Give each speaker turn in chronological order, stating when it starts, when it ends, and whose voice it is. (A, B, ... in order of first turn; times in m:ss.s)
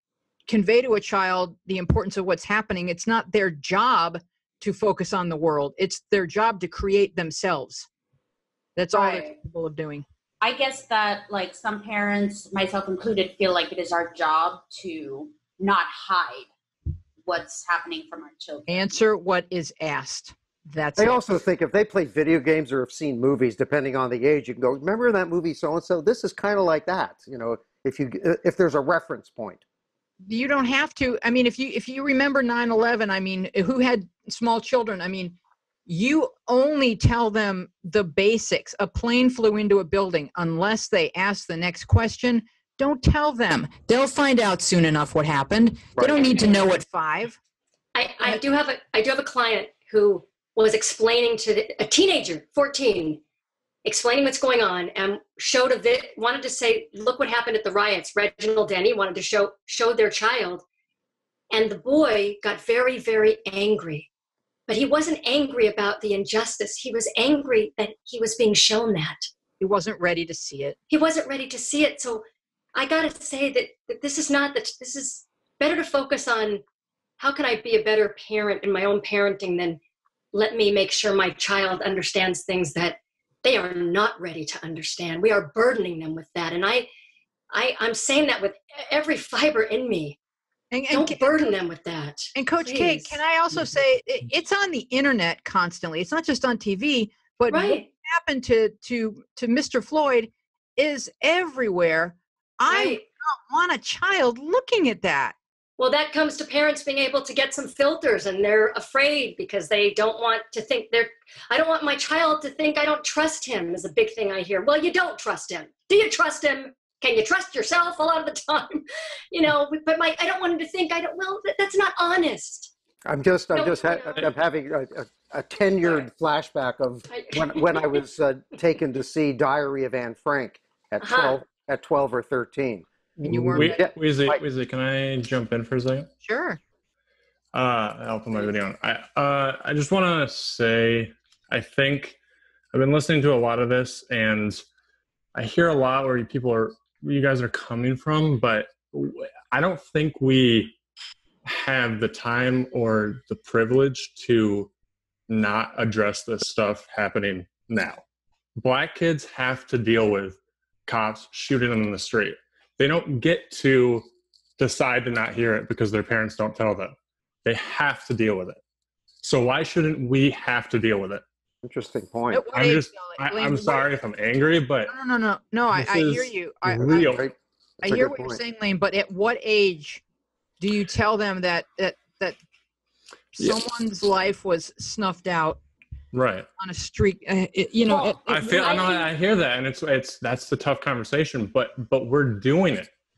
0:00.5-0:07.9 A
0:08.8-0:10.0 A
0:08.9-0:09.3 B
0:10.4-0:16.5 B
0:17.2-0:18.8 B
0:18.7-0:21.2 A
0:21.0-0:29.6 C
0:30.2-0:35.4 A
0:35.9-0:47.4 A
0:46.0-0:46.6 C
0:47.9-0:53.2 D
0:53.8-1:00.6 D
1:01.5-1:04.1 D
1:04.7-1:09.3 D
1:09.6-1:10.8 A
1:10.9-1:12.2 D
1:12.7-1:16.6 D
1:17.2-1:19.8 D
1:20.3-1:26.9 D
1:27.5-1:30.2 D
1:30.7-1:31.3 A
1:30.9-1:33.2 D
1:32.3-1:45.3 A
1:37.5-1:37.9 D
1:42.7-1:43.0 D
1:45.8-2:02.7 D
2:03.0-2:14.4 C
2:03.5-2:04.3 D
2:07.1-2:08.0 D
2:11.0-2:11.4 D
2:13.2-2:13.8 A
2:13.4-2:16.1 E
2:16.2-2:16.6 A
2:17.5-2:22.2 E
2:22.7-2:24.6 E
2:25.3-2:30.8 E
2:31.4-2:34.7 E
2:35.3-2:38.0 E
2:38.6-2:48.6 E
2:49.2-2:51.2 E
2:51.6-2:52.4 C
2:52.3-2:53.9 A
2:52.5-2:54.9 E
2:54.9-2:57.2 A
2:55.7-2:57.3 E
2:56.8-2:58.4 C
2:57.8-3:00.0 A
3:00.6-3:02.4 A
3:03.3-3:05.6 A
3:06.1-3:06.5 E
3:06.6-3:08.7 A
3:08.1-3:12.9 E
3:08.4-3:09.0 B